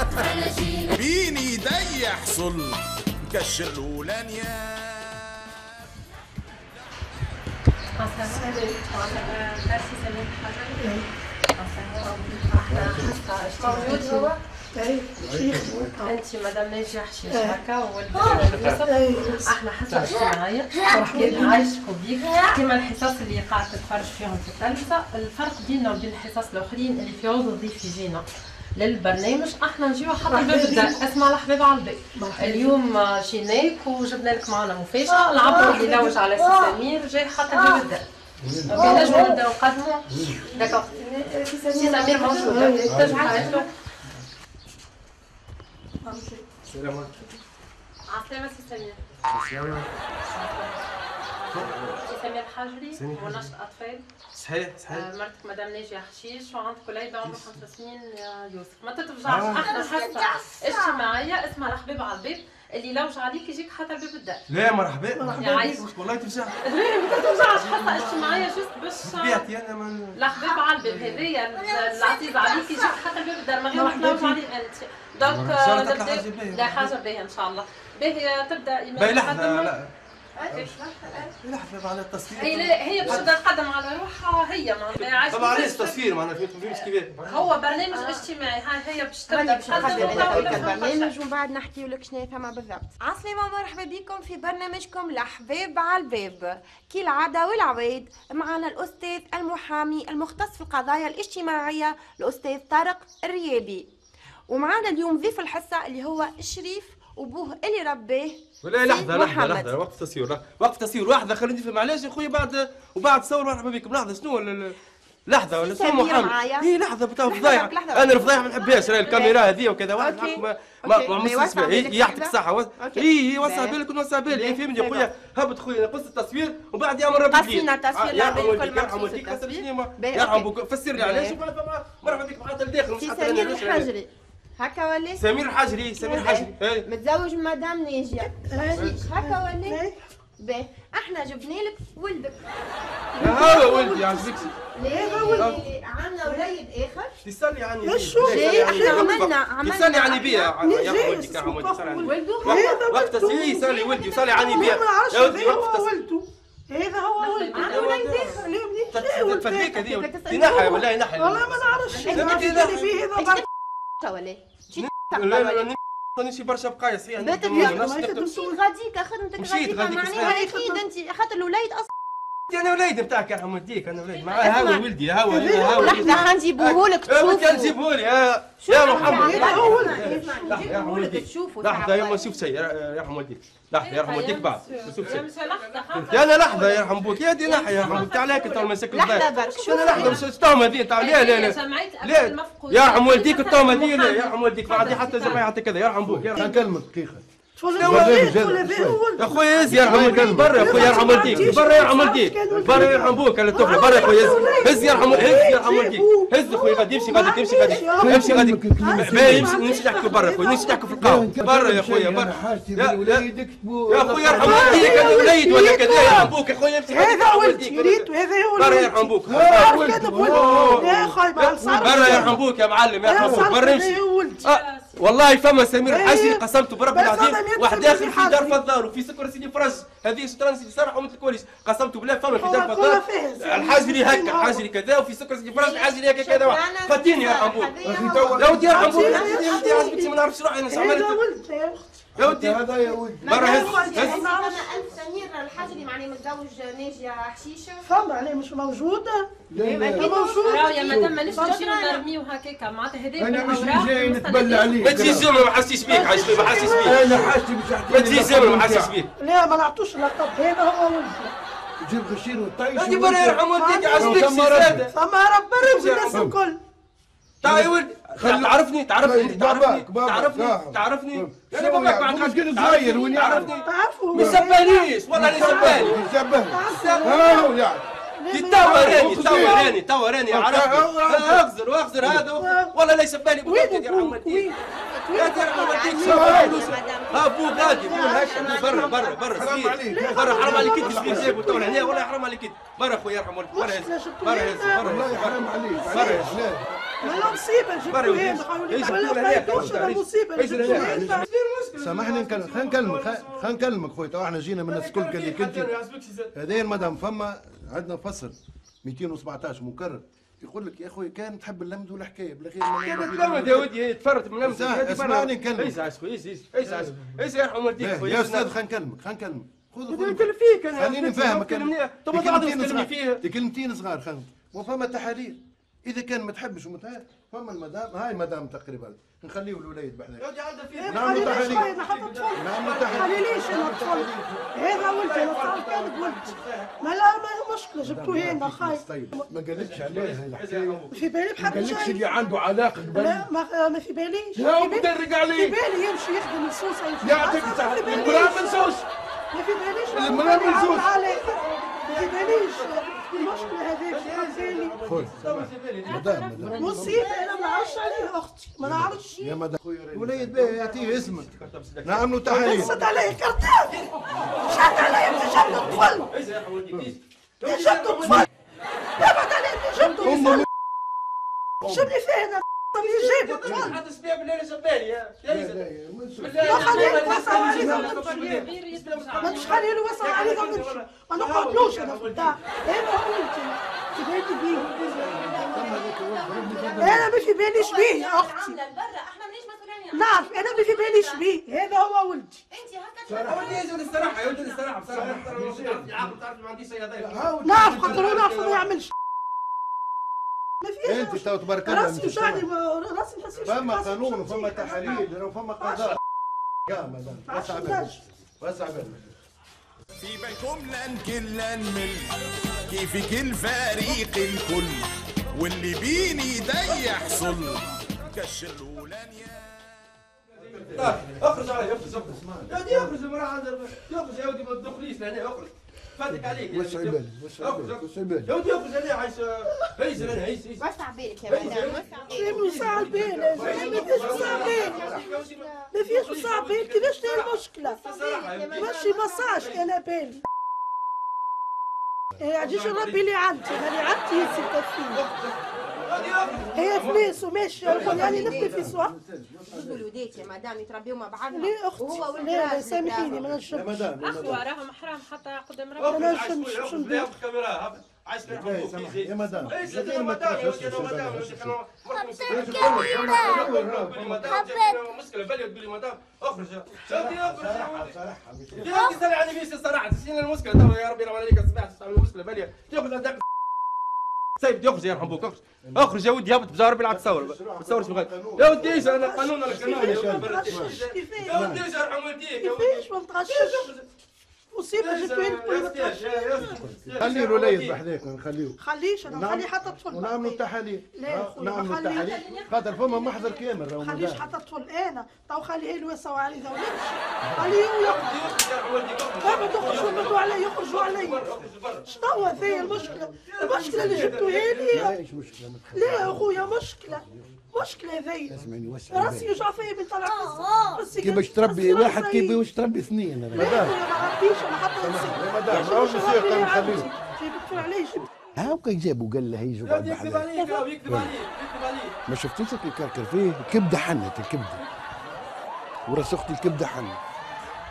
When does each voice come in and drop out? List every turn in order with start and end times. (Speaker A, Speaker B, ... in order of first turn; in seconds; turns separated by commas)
Speaker A: 0.1-5.2, Speaker B: 8.0-11.0, Speaker C: 8.3-8.8, Speaker B: 11.6-14.3, Speaker D: 12.8-13.1, Speaker E: 13.6-14.4, Speaker C: 14.7-16.1, Speaker D: 15.4-15.9, Speaker B: 16.0-28.2, Speaker C: 17.3-17.6, Speaker C: 18.2-19.5, Speaker E: 20.0-21.6, Speaker C: 20.8-21.5, Speaker B: 28.8-38.0, Speaker C: 30.3-31.0, Speaker C: 32.2-32.7, Speaker E: 35.1-36.8, Speaker C: 35.5-36.0, Speaker E: 37.5-37.8, Speaker D: 38.4-39.1, Speaker B: 38.7-40.9, Speaker C: 38.7-39.4, Speaker E: 38.8-39.4, Speaker D: 40.1-40.4, Speaker E: 40.4-43.7, Speaker B: 41.7-43.7, Speaker C: 42.5-42.8, Speaker D: 42.9-43.5, Speaker C: 46.0-46.4, Speaker D: 46.7-47.1, Speaker B: 48.1-49.0, Speaker D: 49.3-49.8, Speaker B: 50.2-50.8, Speaker B: 51.4-54.0, Speaker D: 51.5-51.9, Speaker D: 52.9-53.5, Speaker F: 54.3-55.0, Speaker B: 54.9-64.4, Speaker D: 59.2-59.7, Speaker E: 59.5-61.1, Speaker F: 64.5-68.5, Speaker C: 65.2-65.4, Speaker B: 65.4-65.8, Speaker B: 66.6-69.5, Speaker F: 69.0-70.2, Speaker B: 70.1-79.8, Speaker E: 70.3-70.8, Speaker F: 70.8-71.2, Speaker E: 71.5-73.1, Speaker C: 73.7-74.3, Speaker F: 75.2-76.9, Speaker F: 79.0-79.9, Speaker E: 80.3-81.3, Speaker F: 81.4-83.3, Speaker B: 82.3-86.1, Speaker F: 85.0-87.5, Speaker B: 87.2-91.1, Speaker E: 87.7-88.3, Speaker E: 89.3-103.9, Speaker D: 89.7-90.6, Speaker F: 89.7-90.7, Speaker E: 104.5-109.7, Speaker F: 108.6-114.8, Speaker F: 115.3-133.9, Speaker E: 115.5-125.1, Speaker E: 127.3-131.4, Speaker E: 132.9-135.2, Speaker F: 135.2-136.8, Speaker E: 136.0-139.8, Speaker C: 138.2-140.0, Speaker E: 140.4-142.4, Speaker C: 143.2-145.6, Speaker F: 143.2-144.5, Speaker E: 144.7-147.2, Speaker C: 146.3-146.5, Speaker F: 147.2-155.9, Speaker C: 147.8-149.2, Speaker E: 148.2-150.6, Speaker C: 150.6-159.8, Speaker E: 152.0-152.8, Speaker B: 157.2-158.2, Speaker F: 157.5-162.9, Speaker E: 159.7-160.8, Speaker C: 160.6-163.4, Speaker E: 161.9-163.4, Speaker E: 164.0-165.7, Speaker F: 164.8-168.2, Speaker E: 167.2-171.9, Speaker C: 167.5-168.4, Speaker F: 169.4-170.4, Speaker C: 170.0-170.8, Speaker F: 172.5-196.6, Speaker E: 174.2-177.8, Speaker C: 175.3-176.3, Speaker E: 178.6-182.4, Speaker C: 178.9-180.6, Speaker B: 183.8-188.7, Speaker D: 187.8-188.1, Speaker E: 188.1-190.1, Speaker B: 189.3-190.3, Speaker D: 189.8-190.2, Speaker B: 190.9-195.4, Speaker D: 196.0-197.2, Speaker C: 197.6-211.2, Speaker F: 197.8-198.4, Speaker D: 197.8-199.0, Speaker F: 199.2-213.3, Speaker D: 199.6-202.0, Speaker D: 202.5-205.6, Speaker D: 207.6-209.6, Speaker D: 211.0-215.4, Speaker F: 213.9-241.2, Speaker C: 214.3-216.3, Speaker C: 216.9-222.4, Speaker D: 219.2-222.4, Speaker C: 223.0-224.4, Speaker D: 223.2-223.5, Speaker B: 224.5-224.8, Speaker C: 225.8-228.6, Speaker C: 232.4-234.6, Speaker E: 235.5-240.0, Speaker D: 237.8-239.4, Speaker C: 238.7-240.2, Speaker C: 240.7-241.8, Speaker D: 242.2-243.4, Speaker F: 242.2-244.3, Speaker C: 243.2-244.7, Speaker E: 243.2-247.9, Speaker C: 247.8-249.3, Speaker D: 249.5-250.1, Speaker E: 249.5-252.0, Speaker C: 249.9-251.1, Speaker B: 250.3-255.2, Speaker D: 250.8-251.2, Speaker D: 253.2-255.4, Speaker F: 254.8-257.3, Speaker C: 255.8-257.3, Speaker D: 256.1-259.0, Speaker F: 257.9-259.1, Speaker C: 259.2-261.3, Speaker D: 261.8-263.4, Speaker F: 262.7-264.9, Speaker C: 263.5-264.4, Speaker D: 263.9-264.9, Speaker C: 264.9-266.6, Speaker F: 265.6-266.3, Speaker D: 266.1-266.4, Speaker F: 267.4-276.1, Speaker D: 267.4-273.6, Speaker C: 273.6-277.6, Speaker D: 274.1-274.6, Speaker D: 275.1-277.8, Speaker F: 276.7-277.1, Speaker C: 278.2-279.7, Speaker F: 278.3-284.5, Speaker D: 278.6-279.7, Speaker D: 280.3-281.4, Speaker C: 282.2-282.7, Speaker C: 283.4-286.4, Speaker F: 285.1-296.4, Speaker E: 285.1-289.4, Speaker D: 286.0-286.8, Speaker C: 287.6-288.9, Speaker D: 288.0-291.7, Speaker C: 289.9-292.1, Speaker C: 293.5-294.9, Speaker D: 294.8-296.7, Speaker C: 295.8-296.2, Speaker C: 297.0-301.2, Speaker F: 297.0-303.6, Speaker D: 299.4-299.9, Speaker D: 300.6-301.2, Speaker D: 301.8-305.7, Speaker F: 304.7-306.3, Speaker D: 306.3-313.7, Speaker F: 312.8-318.5, Speaker D: 314.4-315.8, Speaker D: 316.6-317.2, Speaker D: 317.8-330.3, Speaker F: 319.9-323.2, Speaker F: 330.2-333.7, Speaker C: 330.8-339.3, Speaker D: 330.8-331.7, Speaker D: 332.3-334.4, Speaker F: 334.6-336.7, Speaker D: 337.8-343.2, Speaker F: 339.5-341.1, Speaker C: 340.9-342.1, Speaker C: 342.9-348.7, Speaker D: 344.4-345.5, Speaker F: 344.9-345.5, Speaker D: 347.0-348.8, Speaker F: 347.3-348.7, Speaker C: 349.3-354.8, Speaker D: 349.9-351.0, Speaker F: 349.9-356.9, Speaker D: 354.8-357.1, Speaker E: 355.9-358.0, Speaker C: 356.6-359.3, Speaker D: 358.6-362.8, Speaker F: 360.0-362.9, Speaker C: 362.2-363.8, Speaker F: 363.7-368.3, Speaker C: 364.4-366.1, Speaker C: 367.4-368.3, Speaker C: 369.0-370.5, Speaker F: 369.8-370.4, Speaker D: 370.0-370.5, Speaker C: 371.6-373.8, Speaker D: 371.6-371.9, Speaker F: 372.8-375.6, Speaker D: 373.4-373.8, Speaker D: 375.2-376.7, Speaker F: 376.2-382.4, Speaker C: 376.4-378.3, Speaker B: 376.5-380.4, Speaker C: 379.2-384.7, Speaker E: 384.8-391.3, Speaker D: 384.9-387.1, Speaker C: 386.8-388.6, Speaker C: 389.9-392.4, Speaker E: 392.5-394.8, Speaker D: 393.1-393.8, Speaker F: 393.2-398.7, Speaker D: 394.9-396.0, Speaker D: 397.0-398.4, Speaker C: 397.4-398.9, Speaker C: 400.6-405.1, Speaker D: 400.8-402.5, Speaker D: 403.4-406.0, Speaker C: 405.6-406.0, Speaker D: 406.6-409.0, Speaker C: 407.3-408.0, Speaker A: 410.0-419.7, Speaker F: 420.4-430.6, Speaker D: 420.4-422.9, Speaker D: 426.2-426.8, Speaker G: 426.5-428.3, Speaker D: 427.3-428.2, Speaker E: 430.6-432.8, Speaker F: 431.3-438.8, Speaker C: 432.1-434.9, Speaker D: 432.7-435.1, Speaker E: 433.3-435.7, Speaker C: 435.7-437.8, Speaker E: 437.6-439.4, Speaker C: 438.5-440.2, Speaker F: 439.3-439.6, Speaker C: 442.2-445.0, Speaker F: 442.4-443.0, Speaker F: 444.1-445.2, Speaker D: 445.1-447.0, Speaker F: 445.9-447.1, Speaker C: 446.5-448.9, Speaker D: 447.6-450.2, Speaker E: 447.6-448.7, Speaker F: 447.8-448.4, Speaker E: 449.5-453.3, Speaker C: 451.3-453.8, Speaker D: 453.0-454.4, Speaker B: 453.9-456.1, Speaker F: 455.8-467.9, Speaker C: 455.9-457.1, Speaker D: 458.2-461.6, Speaker E: 461.9-463.1, Speaker D: 462.2-464.5, Speaker E: 464.3-464.8, Speaker D: 466.9-468.8, Speaker F: 468.6-473.2, Speaker E: 468.6-469.0, Speaker F: 474.4-483.9, Speaker D: 476.9-481.6, Speaker C: 478.6-481.5, Speaker C: 482.4-483.7, Speaker C: 484.5-486.5, Speaker F: 484.7-487.8, Speaker D: 486.5-494.2, Speaker C: 488.6-490.4, Speaker C: 490.9-492.2, Speaker B: 492.3-493.4, Speaker C: 493.8-498.2, Speaker D: 497.2-497.6, Speaker F: 497.8-504.9, Speaker C: 499.2-501.2, Speaker C: 502.0-504.9, Speaker G: 504.7-505.9, Speaker D: 504.7-506.2, Speaker C: 505.7-508.4, Speaker G: 508.3-509.4, Speaker C: 508.9-512.4, Speaker E: 510.0-510.9, Speaker D: 511.0-513.8, Speaker G: 511.0-513.7, Speaker C: 513.3-518.3, Speaker D: 514.8-516.9, Speaker G: 518.4-520.3, Speaker F: 519.6-521.9, Speaker C: 520.4-520.6, Speaker G: 520.8-521.1, Speaker G: 522.1-524.6, Speaker G: 525.9-527.0